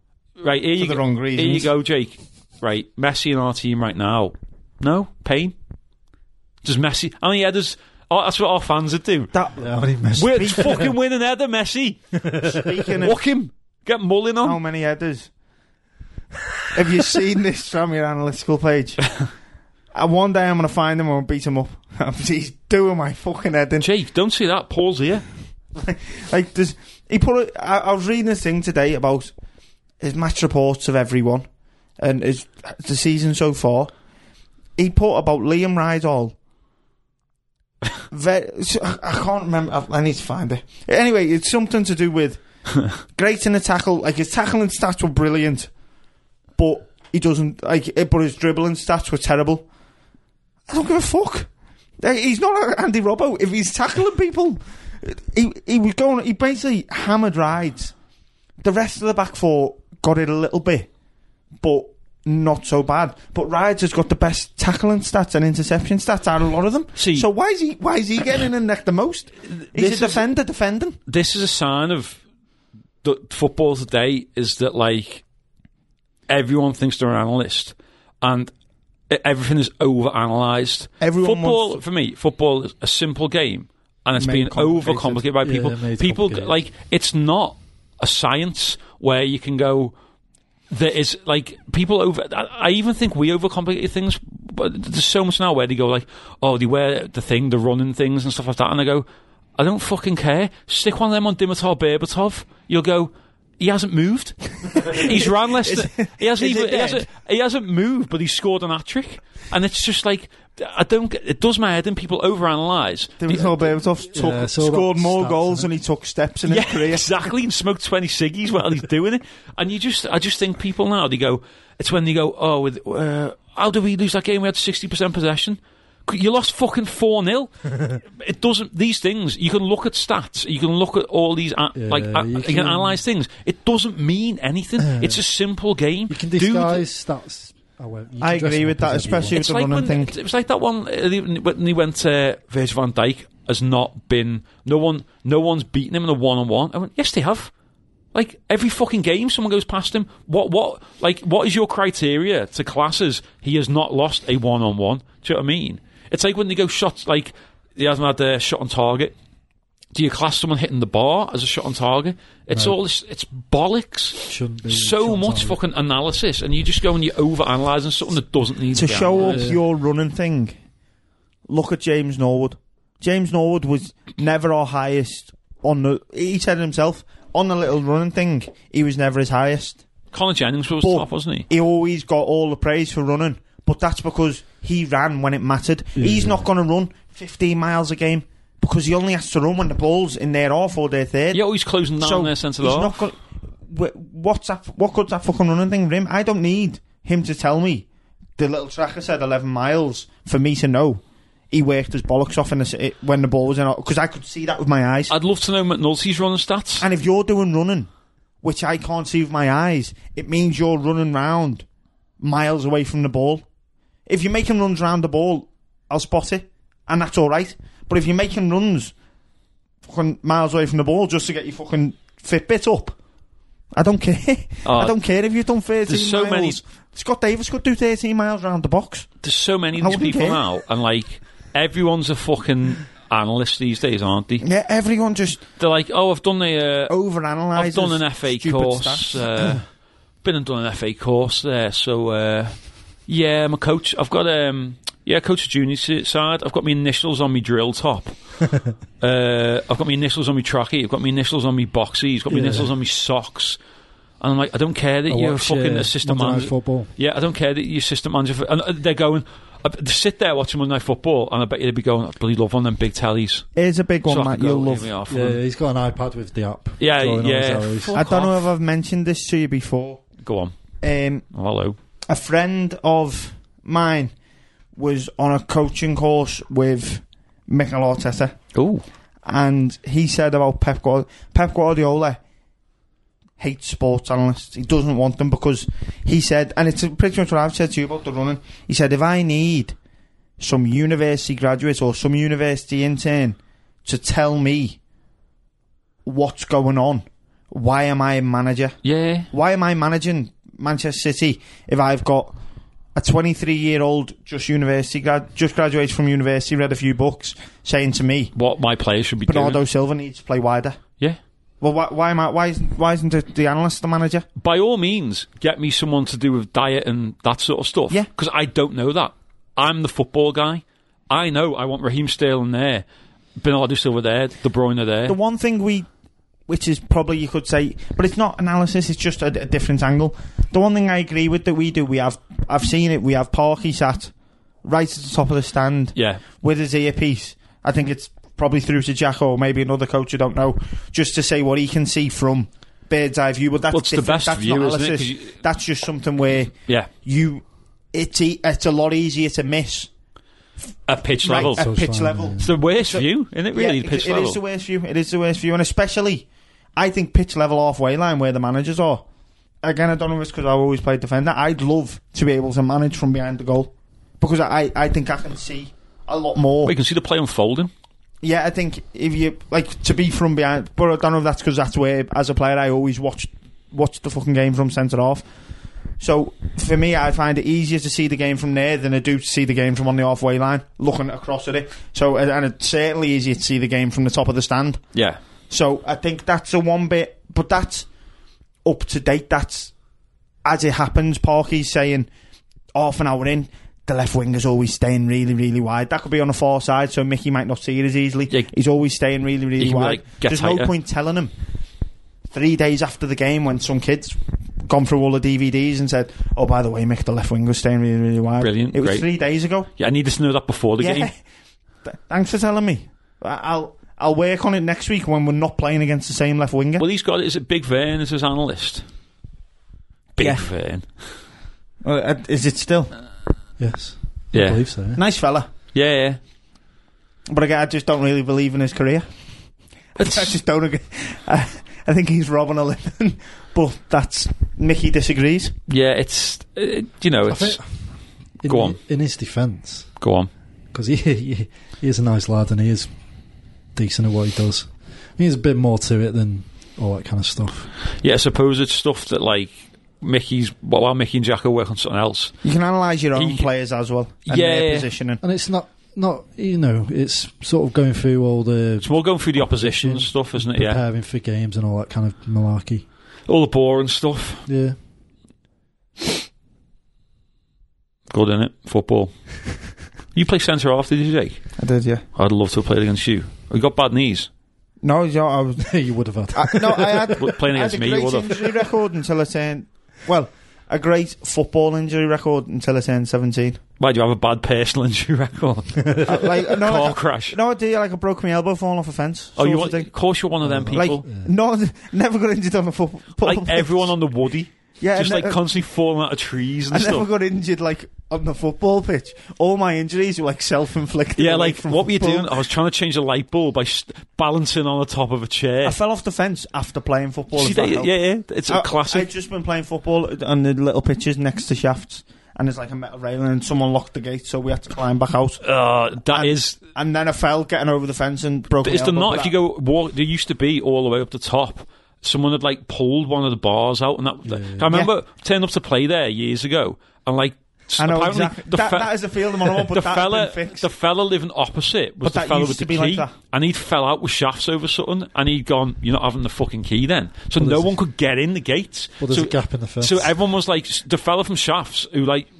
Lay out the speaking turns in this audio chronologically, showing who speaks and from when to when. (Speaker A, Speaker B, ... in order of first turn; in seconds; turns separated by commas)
Speaker A: 0.4-5.5, Speaker B: 0.8-1.7, Speaker A: 6.6-9.3, Speaker B: 9.3-10.8, Speaker C: 9.6-10.9, Speaker A: 10.1-12.1, Speaker C: 12.2-12.8, Speaker B: 12.5-13.2, Speaker A: 13.0-14.6, Speaker B: 14.4-15.3, Speaker B: 16.7-19.1, Speaker B: 19.9-23.9, Speaker A: 23.8-25.2, Speaker B: 25.8-29.3, Speaker B: 30.0-31.5, Speaker B: 32.0-33.9, Speaker B: 34.8-36.4, Speaker B: 38.1-42.4, Speaker B: 42.9-45.7, Speaker B: 46.6-49.7, Speaker B: 50.7-57.9, Speaker B: 58.6-60.9, Speaker B: 61.6-71.0, Speaker A: 67.0-67.3, Speaker A: 69.5-70.3, Speaker A: 71.1-72.2, Speaker A: 73.0-75.2, Speaker A: 76.3-78.5, Speaker A: 79.1-89.9, Speaker B: 81.0-81.8, Speaker B: 84.2-85.2, Speaker C: 85.4-86.6, Speaker A: 90.7-113.7, Speaker B: 104.9-107.0, Speaker B: 113.2-117.2, Speaker C: 114.1-115.7, Speaker A: 116.5-136.9, Speaker C: 131.8-133.0, Speaker C: 134.8-135.2, Speaker C: 136.1-139.4, Speaker B: 138.2-140.1, Speaker A: 139.3-147.5, Speaker A: 148.1-159.2, Speaker A: 159.9-169.6, Speaker C: 162.5-162.8, Speaker C: 164.3-165.6, Speaker B: 168.7-170.5, Speaker C: 169.2-169.6, Speaker B: 171.5-179.8, Speaker A: 180.1-181.5, Speaker B: 180.8-191.4, Speaker C: 186.0-186.5, Speaker A: 191.3-192.9, Speaker B: 192.0-197.9, Speaker B: 198.4-205.1, Speaker A: 205.1-206.9, Speaker B: 206.8-207.9, Speaker B: 208.4-211.7, Speaker B: 212.2-213.4, Speaker B: 214.1-218.9, Speaker B: 219.9-223.0, Speaker B: 223.7-229.1, Speaker A: 224.6-225.0, Speaker A: 225.9-226.6, Speaker A: 229.2-234.4, Speaker B: 229.8-230.4, Speaker B: 234.4-235.4, Speaker A: 235.6-236.9, Speaker B: 236.9-239.4, Speaker A: 237.5-239.6, Speaker A: 240.2-248.4, Speaker A: 249.0-253.6, Speaker C: 252.3-252.7, Speaker A: 254.2-263.5, Speaker C: 255.1-256.9, Speaker B: 263.6-264.9, Speaker A: 264.1-265.4, Speaker C: 265.1-268.0, Speaker A: 266.8-268.4, Speaker B: 267.9-270.0, Speaker A: 270.2-270.6, Speaker B: 270.8-271.2, Speaker A: 271.3-271.8, Speaker B: 272.1-274.1, Speaker B: 274.8-278.4, Speaker A: 278.6-278.8, Speaker B: 279.2-282.2, Speaker B: 283.4-289.8, Speaker B: 290.4-294.8, Speaker B: 296.1-298.8, Speaker A: 298.8-299.3, Speaker B: 299.3-302.4, Speaker B: 302.9-308.3, Speaker A: 308.3-309.6, Speaker B: 309.3-310.8, Speaker B: 311.6-314.3, Speaker A: 314.4-322.9, Speaker A: 323.4-325.2, Speaker B: 325.1-325.9, Speaker B: 326.5-334.1, Speaker B: 334.6-349.9, Speaker A: 335.9-336.2, Speaker A: 343.7-345.3, Speaker A: 350.9-351.7, Speaker B: 351.2-359.0, Speaker C: 351.5-352.5, Speaker A: 352.4-354.4, Speaker B: 359.6-366.7, Speaker A: 366.6-367.7, Speaker B: 368.2-375.2, Speaker B: 376.0-384.9, Speaker A: 384.9-385.2, Speaker B: 385.5-387.9, Speaker B: 388.6-389.7, Speaker B: 390.4-392.1, Speaker B: 392.8-401.3, Speaker A: 399.6-400.7, Speaker B: 402.3-409.7, Speaker A: 408.4-409.1, Speaker A: 409.8-411.1, Speaker B: 410.8-411.1, Speaker B: 411.9-416.9, Speaker A: 416.8-418.9, Speaker A: 420.2-420.9, Speaker B: 420.2-420.5, Speaker B: 421.8-422.9, Speaker C: 423.6-425.0, Speaker A: 424.3-424.6, Speaker B: 424.9-425.5, Speaker A: 425.7-426.2, Speaker B: 427.3-429.1, Speaker A: 430.0-430.4, Speaker B: 430.0-435.6, Speaker A: 435.7-437.6, Speaker C: 437.3-437.7, Speaker C: 438.4-439.9, Speaker A: 438.5-438.8, Speaker A: 440.0-440.3, Speaker C: 440.7-442.9, Speaker C: 443.8-447.7, Speaker A: 448.0-452.4, Speaker B: 452.4-455.2, Speaker A: 453.1-453.5, Speaker A: 454.3-454.9, Speaker C: 455.2-462.9, Speaker A: 458.8-460.8, Speaker A: 463.3-464.5, Speaker C: 464.5-464.8, Speaker A: 468.1-469.1, Speaker A: 470.1-471.4, Speaker B: 471.6-472.0, Speaker A: 472.1-474.3, Speaker B: 474.8-483.6, Speaker C: 475.6-477.3, Speaker A: 477.2-478.3, Speaker A: 483.8-487.4, Speaker B: 486.1-490.1, Speaker A: 489.4-491.0, Speaker C: 490.4-491.3, Speaker B: 490.7-493.9, Speaker A: 493.2-497.1, Speaker B: 494.8-495.4, Speaker B: 496.7-502.3, Speaker A: 501.2-505.8, Speaker B: 505.6-507.9, Speaker A: 507.3-509.1, Speaker B: 508.5-515.4, Speaker A: 515.4-516.6, Speaker B: 516.1-519.3, Speaker A: 518.6-542.3, Speaker C: 524.3-524.7, Speaker B: 527.8-530.6, Speaker B: 532.0-533.1, Speaker C: 537.4-537.7, Speaker C: 539.0-540.1